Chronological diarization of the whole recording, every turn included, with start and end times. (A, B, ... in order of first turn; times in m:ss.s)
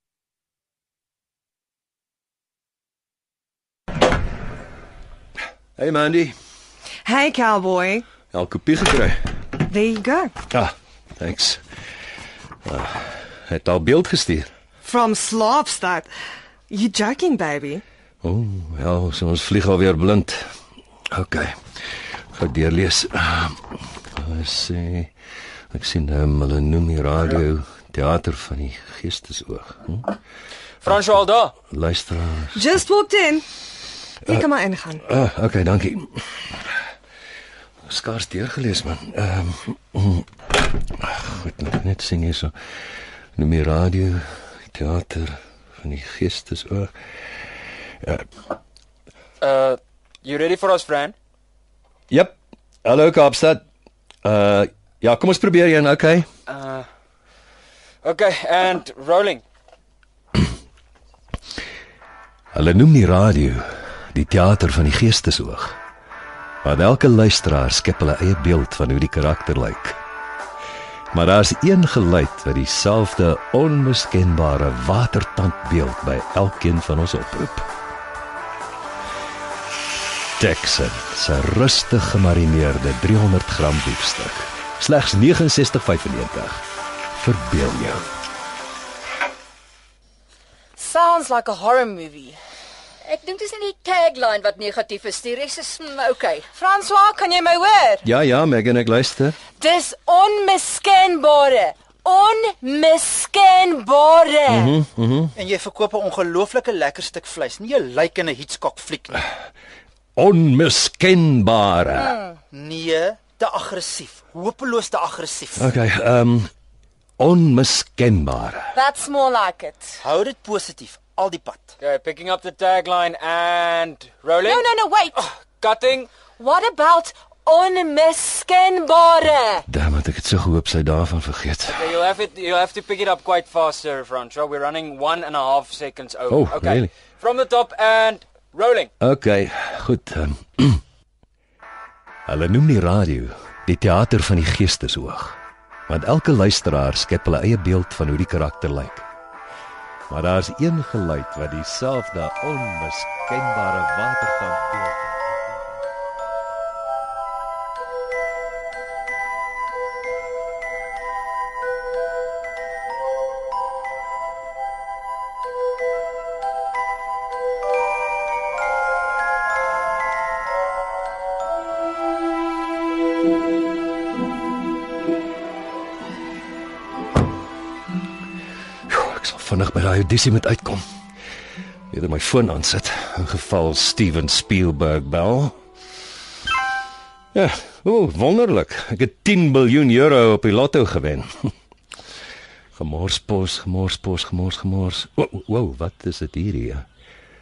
0:05.8-0:06.4 A
0:07.0-0:08.0 B
0:08.3-0:09.2 A
0:09.7-0:10.4 B
0:10.5-0:11.6 A
0:12.6-0:14.5 A
0:14.8-0:16.1 B
0:16.7-0:17.8 B
0:18.2-0:20.5 A
0:21.1-0:21.7 A
0:22.3-0:25.1 A
0:25.7-0:30.1 A
0:30.8-0:31.5 C
0:30.8-0:32.7 A
0:32.5-0:33.4 B
0:34.3-0:35.0 B
0:35.0-0:36.7 A
0:37.9-0:40.3 A
0:40.9-0:42.5 A
0:43.4-0:46.9 A
0:48.0-0:48.3 A
0:49.4-0:51.2 C
0:52.1-0:53.6 A
0:54.2-0:56.3 A
0:56.5-0:56.8 C
0:58.0-0:59.4 C
1:02.5-1:05.8 A
1:06.6-1:10.0 A
1:11.1-1:17.7 A
1:20.4-1:26.6 A
1:27.2-1:28.1 A
1:30.8-1:32.4 D
1:33.0-1:36.5 E
1:36.6-1:38.0 D
1:38.0-1:39.4 A
1:39.6-1:44.7 D
1:44.5-1:45.4 A
1:45.4-1:49.2 F
1:50.2-1:52.2 A
1:52.5-1:55.7 F
1:55.6-1:56.5 A
1:57.2-1:58.7 A
1:58.7-2:00.0 D
2:00.0-2:01.8 F
2:01.8-2:04.6 C
2:04.4-2:05.3 D
2:05.4-2:06.1 C
2:06.4-2:09.7 D
2:09.7-2:12.0 A
2:11.7-2:18.9 C
2:16.3-2:16.9 A
2:19.0-2:20.8 A
2:22.3-2:29.1 A
2:30.1-2:35.6 A
2:58.9-3:00.8 A
3:01.9-3:05.6 A
3:07.3-3:11.5 A
3:12.8-3:16.9 A